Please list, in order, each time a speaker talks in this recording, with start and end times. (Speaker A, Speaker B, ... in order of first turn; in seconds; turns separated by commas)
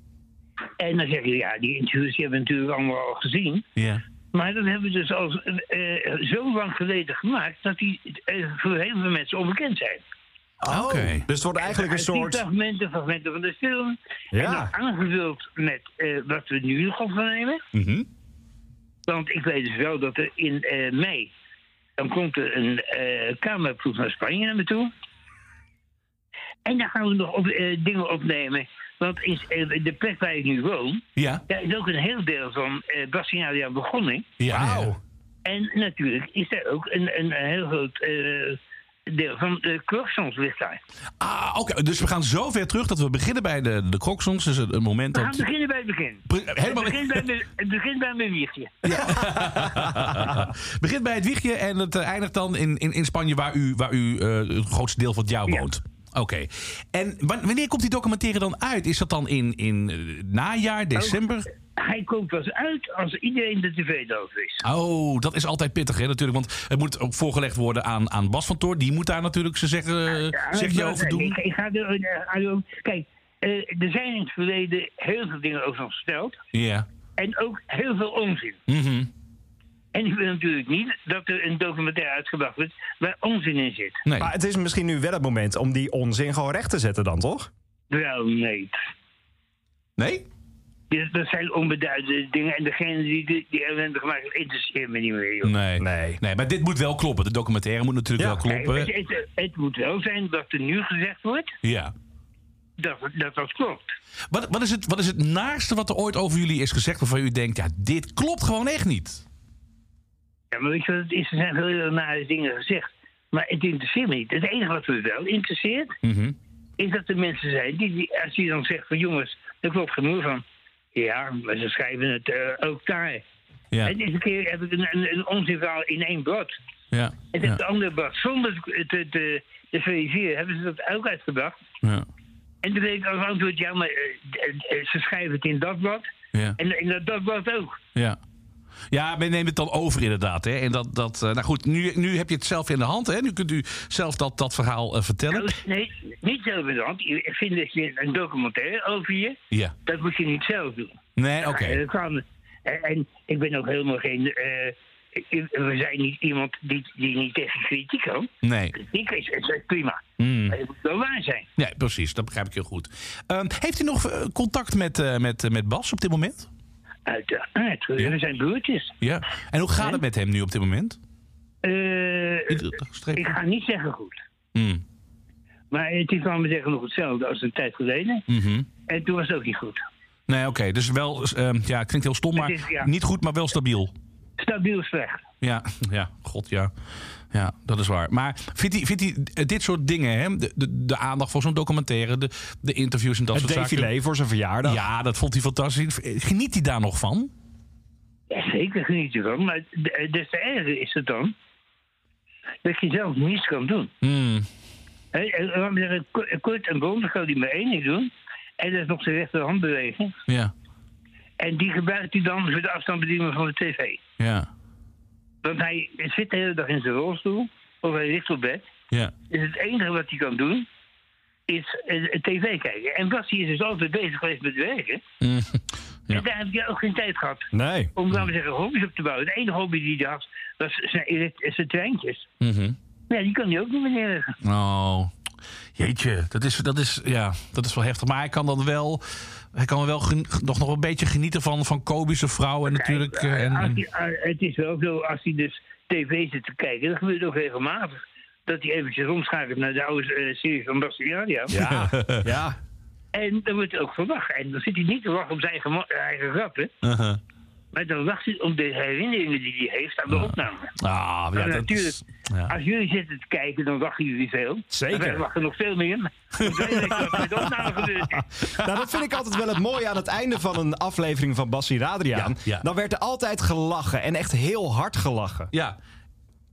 Speaker A: 0.8-3.7, Speaker B: 3.8-4.0, Speaker A: 4.3-10.0, Speaker C: 10.6-12.4, Speaker B: 10.7-11.3, Speaker A: 11.6-17.6, Speaker C: 14.3-14.7, Speaker B: 17.7-18.1, Speaker A: 19.1-21.3, Speaker A: 22.0-24.9, Speaker A: 26.6-34.3, Speaker B: 31.2-31.4, Speaker B: 34.4-34.9, Speaker C: 34.5-35.0, Speaker A: 35.5-40.8, Speaker B: 41.2-45.4, Speaker A: 45.1-49.1, Speaker B: 46.3-47.3, Speaker B: 48.8-61.5, Speaker C: 49.4-50.3, Speaker A: 61.8-64.6, Speaker B: 64.6-71.4, Speaker A: 70.2-76.4, Speaker B: 76.5-76.9, Speaker A: 77.2-78.6, Speaker B: 78.7-79.1, Speaker A: 79.9-84.0, Speaker C: 84.2-87.5, Speaker A: 87.9-88.8, Speaker B: 90.0-90.3, Speaker A: 90.9-95.6, Speaker B: 95.4-98.9, Speaker C: 95.8-96.2, Speaker A: 98.4-101.5, Speaker B: 101.6-101.9, Speaker A: 102.8-103.9, Speaker B: 104.3-109.2, Speaker A: 110.5-116.0, Speaker B: 116.0-116.4, Speaker A: 116.8-123.2, Speaker A: 123.8-126.5, Speaker B: 126.9-127.6, Speaker A: 127.3-131.6, Speaker A: 132.6-136.1, Speaker A: 136.6-137.8, Speaker B: 137.9-138.2, Speaker B: 138.9-145.6, Speaker A: 145.3-161.5, Speaker B: 151.2-151.8, Speaker B: 158.4-158.8, Speaker B: 160.2-160.6, Speaker B: 161.6-166.5, Speaker A: 167.1-168.9, Speaker B: 169.0-171.0, Speaker A: 171.6-174.2, Speaker B: 172.5-173.4, Speaker B: 174.6-174.8, Speaker A: 175.7-178.3, Speaker B: 178.3-178.7, Speaker A: 178.9-179.8, Speaker B: 180.3-183.9, Speaker A: 182.4-182.9, Speaker A: 184.4-185.2, Speaker B: 185.4-186.7, Speaker B: 187.3-193.9, Speaker C: 193.3-194.8, Speaker B: 194.6-197.3, Speaker A: 198.3-201.3, Speaker A: 202.6-203.9, Speaker B: 204.0-204.5, Speaker A: 205.1-210.2, Speaker B: 210.3-210.5, Speaker A: 211.4-214.0, Speaker B: 214.2-214.5, Speaker A: 215.4-218.7, Speaker A: 219.3-220.7, Speaker A: 221.5-225.0, Speaker B: 225.2-226.3, Speaker A: 226.1-232.3, Speaker C: 227.5-227.9, Speaker B: 232.4-232.8, Speaker A: 233.1-234.4, Speaker B: 234.4-235.1, Speaker B: 235.8-243.8, Speaker A: 242.7-251.6, Speaker B: 251.5-252.3, Speaker C: 251.5-252.6, Speaker A: 253.1-256.7, Speaker B: 256.8-257.2, Speaker A: 257.7-260.8, Speaker B: 260.1-262.5, Speaker A: 261.3-268.3, Speaker C: 264.7-265.2, Speaker B: 266.4-267.8, Speaker C: 266.9-267.2, Speaker C: 268.4-275.5, Speaker B: 272.1-272.7, Speaker B: 275.5-275.8